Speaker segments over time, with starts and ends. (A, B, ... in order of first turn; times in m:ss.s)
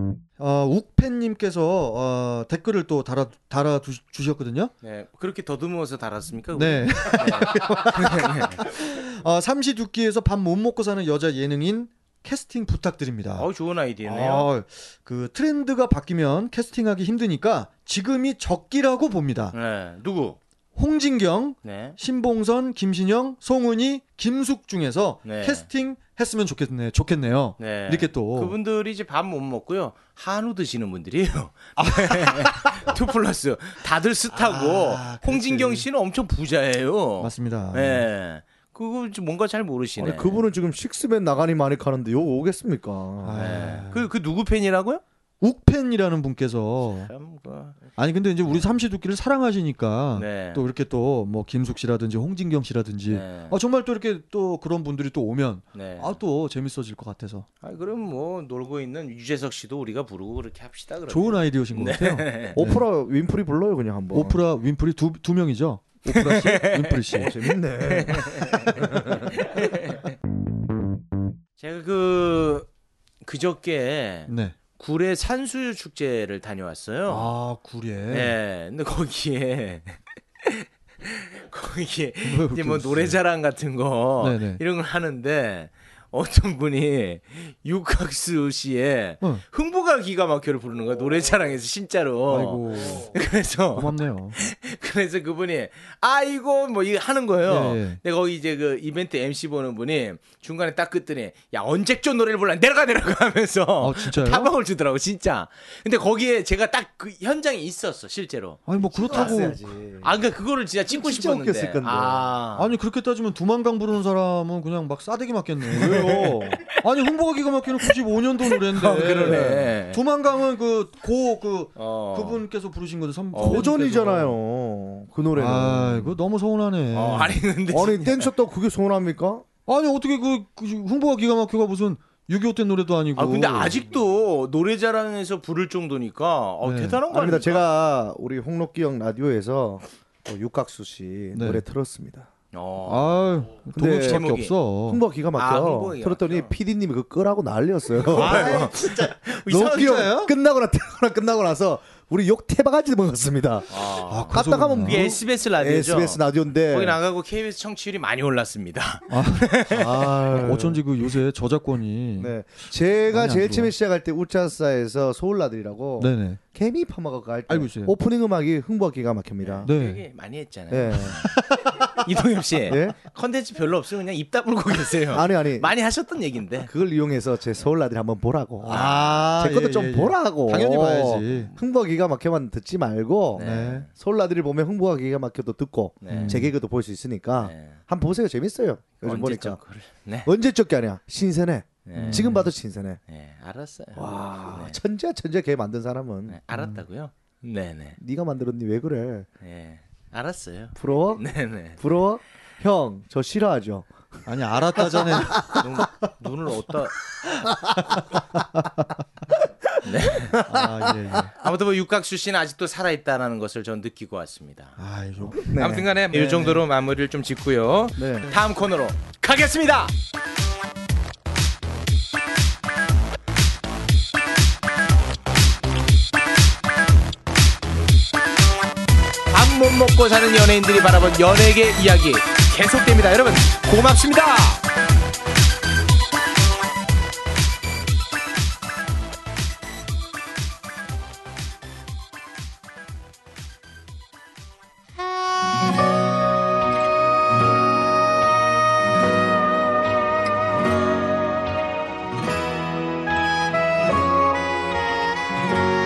0:00.4-0:04.7 A
0:04.8-0:08.7 B
0:06.6-0:13.5 A
0:13.4-0:14.5 B
0:14.0-0:19.6 A
0:19.5-0:20.4 B
0:20.8-0:28.6 A
0:21.6-0:22.0 B
0:25.2-0:25.7 B
0:27.6-0:40.4 B
0:31.8-0:32.9 A
0:34.3-0:35.9 A
0:37.2-0:38.1 A
0:40.0-0:43.5 C
0:43.2-0:44.1 A
0:43.4-0:45.0 B
0:45.4-0:47.1 A
0:47.0-0:47.9 B
0:48.0-0:57.5 A
0:50.2-0:50.6 B
0:53.1-0:53.6 B
0:55.7-0:56.2 B
0:57.6-1:02.6 B
1:01.1-1:02.8 A
1:02.6-1:04.4 C
1:04.1-1:07.3 A
1:06.1-1:07.3 B
1:07.1-1:09.4 C
1:07.8-1:10.1 B
1:11.6-1:12.7 B
1:13.2-1:17.3 B
1:14.3-1:14.6 A
1:17.1-1:18.4 A
1:18.1-1:49.4 B
1:22.2-1:23.2 A
1:24.2-1:24.6 A
1:32.3-1:33.2 A
1:33.7-1:34.4 A
1:37.4-1:38.0 A
1:43.8-1:44.5 A
1:48.7-1:49.6 A
1:48.8-1:50.1 C
1:50.0-1:52.7 B
1:50.9-1:52.3 C
1:52.6-2:04.4 A
1:55.7-1:56.6 C
1:58.7-2:00.0 B
1:59.3-1:59.6 C
2:01.8-2:02.4 B
2:03.3-2:03.7 B
2:03.4-2:06.2 C
2:05.4-2:07.4 A
2:06.9-2:08.3 B
2:07.7-2:09.5 C
2:09.7-2:13.8 A
2:13.2-2:17.6 B
2:16.6-2:17.0 A
2:17.1-2:22.3 C
2:21.3-2:21.6 A
2:22.5-2:23.2 B
2:22.8-2:25.0 A
2:23.8-2:24.3 C
2:23.8-2:24.6 B
2:24.9-2:37.0 C
2:25.4-2:26.5 B
2:28.0-2:30.1 B
2:28.1-2:30.3 A
2:33.7-2:39.9 B
2:34.1-2:35.1 A
2:39.1-2:42.4 A
2:39.8-2:40.8 C
2:42.2-2:49.7 C
2:43.1-2:43.7 A
2:46.0-2:46.4 A
2:47.5-2:48.0 A
2:49.4-2:51.3 B
2:49.6-2:50.0 A
2:50.7-2:51.2 C
2:51.0-2:52.0 A
2:52.0-2:56.7 B
2:52.7-2:53.0 C
2:55.1-2:55.7 C
2:56.7-3:09.6 C
2:58.6-3:01.5 A
2:58.7-2:59.4 B
3:03.4-3:03.9 B
3:03.4-3:03.9 A
3:06.0-3:06.4 B
3:06.1-3:06.5 A
3:07.4-3:07.8 B
3:09.0-3:10.3 B
3:10.3-3:13.0 C
3:11.9-3:12.3 B
3:12.0-3:12.4 A
3:13.1-3:14.8 B
3:14.0-3:16.4 C
3:16.3-3:18.0 B
3:16.5-3:16.8 A
3:18.0-3:19.3 C
3:19.4-3:21.8 B
3:20.8-3:23.9 C
3:24.3-3:25.6 A
3:24.8-3:25.7 C
3:25.5-3:27.0 B
3:27.4-3:28.0 A
3:27.5-3:27.8 C
3:29.4-3:29.8 C
3:29.8-3:30.4 B
3:30.3-3:31.2 C
3:30.4-3:31.3 A
3:31.4-3:34.8 B
3:34.8-3:36.6 A
3:35.5-3:35.9 C
3:35.5-3:39.9 B
3:38.0-3:38.3 C
3:49.3-3:54.6 B